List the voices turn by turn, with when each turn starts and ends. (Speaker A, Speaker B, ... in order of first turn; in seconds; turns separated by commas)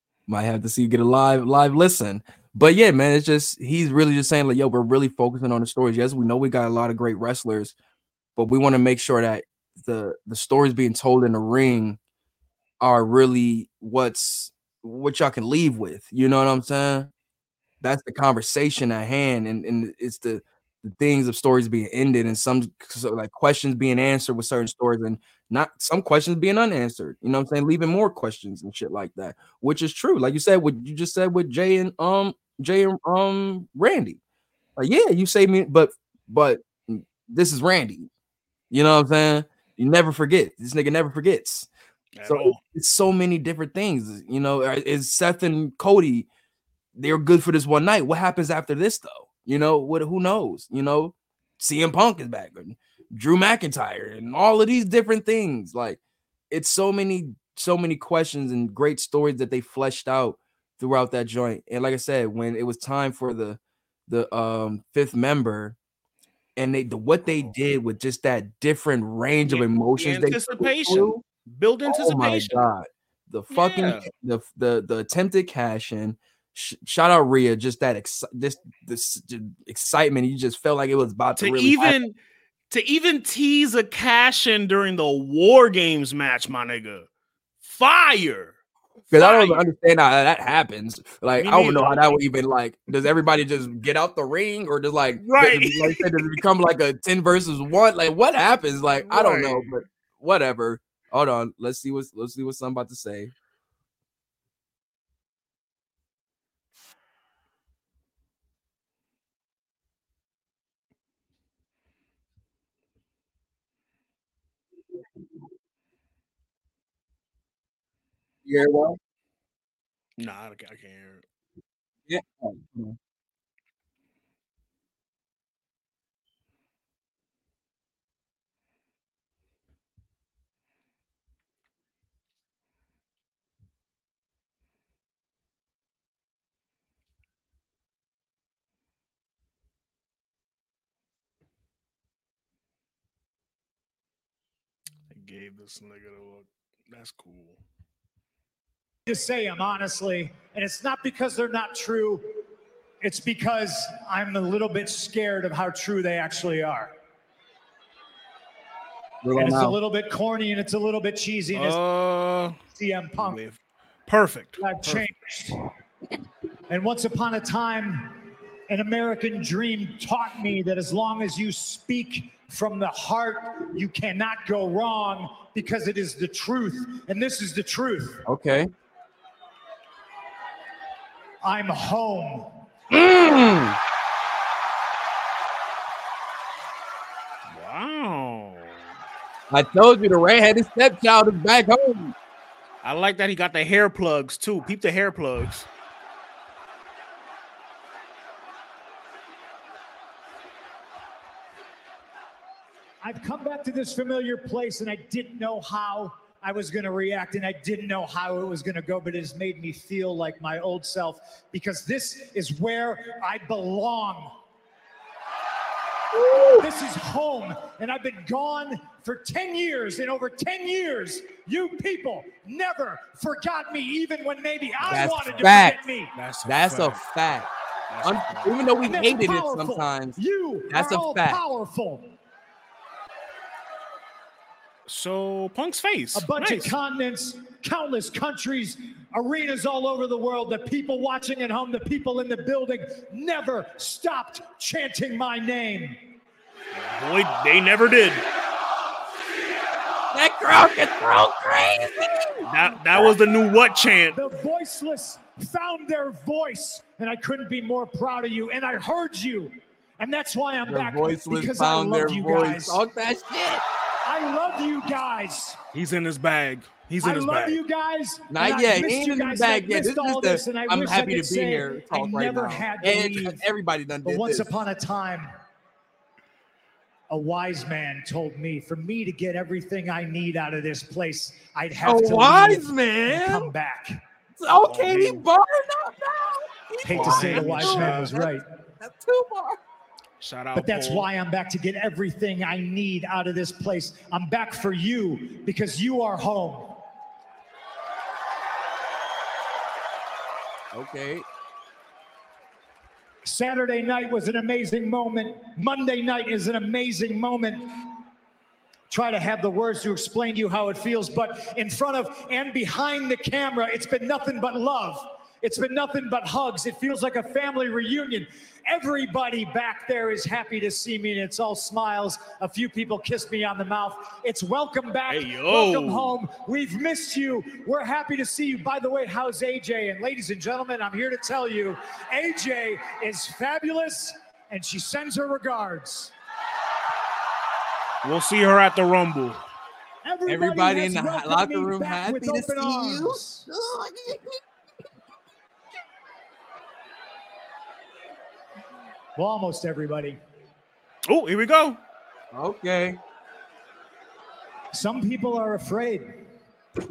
Speaker A: 0.3-7.7, Speaker A: 8.3-12.0, Speaker A: 12.8-17.1, Speaker A: 17.8-34.2, Speaker A: 34.8-38.1, Speaker A: 38.7-41.7, Speaker B: 42.2-42.6, Speaker A: 42.2-46.3, Speaker A: 46.9-56.0, Speaker A: 56.5-65.8, Speaker A: 66.6-71.2, Speaker B: 67.2-67.5, Speaker B: 69.5-72.7, Speaker A: 71.8-82.0, Speaker B: 73.5-74.1, Speaker B: 81.4-82.2, Speaker B: 82.7-87.1, Speaker B: 87.6-88.5, Speaker A: 89.1-103.3, Speaker B: 89.1-89.7, Speaker B: 91.4-92.2, Speaker B: 95.2-96.4, Speaker B: 99.0-99.7, Speaker A: 118.5-119.0, Speaker B: 120.2-121.2, Speaker A: 122.1-123.0, Speaker B: 145.1-147.6, Speaker C: 149.1-152.3, Speaker C: 153.0-156.9, Speaker A: 159.2-159.8, Speaker C: 159.3-161.8, Speaker B: 161.5-162.6, Speaker C: 162.7-163.4, Speaker B: 163.2-165.1, Speaker C: 164.6-165.7, Speaker C: 166.7-168.2, Speaker C: 168.7-178.2, Speaker A: 178.2-178.7, Speaker C: 181.4-182.5, Speaker A: 182.9-183.8, Speaker B: 187.5-188.9, Speaker A: 189.5-192.1, Speaker B: 192.8-195.7, Speaker C: 203.0-214.3, Speaker A: 216.1-216.7, Speaker C: 216.3-226.1, Speaker B: 224.8-225.5, Speaker A: 224.9-225.8, Speaker B: 226.1-227.0, Speaker A: 226.4-227.5, Speaker B: 227.9-228.5, Speaker A: 228.0-230.2, Speaker C: 228.8-232.1, Speaker A: 230.7-231.4, Speaker B: 234.8-236.7, Speaker C: 236.1-246.0, Speaker B: 246.7-248.2, Speaker A: 250.1-252.1, Speaker B: 252.4-254.2, Speaker C: 254.1-262.8, Speaker A: 260.6-263.6, Speaker C: 264.0-265.6, Speaker B: 265.7-267.6, Speaker C: 267.0-273.4, Speaker A: 268.3-274.5, Speaker C: 274.0-275.3, Speaker C: 277.1-284.0, Speaker A: 281.8-283.5, Speaker A: 284.4-289.6, Speaker B: 284.6-285.2, Speaker C: 286.8-288.4, Speaker B: 286.9-288.2, Speaker B: 290.2-291.1, Speaker C: 290.5-296.8, Speaker A: 300.7-301.2, Speaker C: 303.2-307.9, Speaker C: 308.9-336.1, Speaker B: 325.1-326.1, Speaker B: 338.0-339.4, Speaker C: 340.0-343.4, Speaker A: 340.2-344.4, Speaker C: 349.1-350.2, Speaker B: 351.1-351.8, Speaker A: 352.3-353.0, Speaker C: 354.7-356.2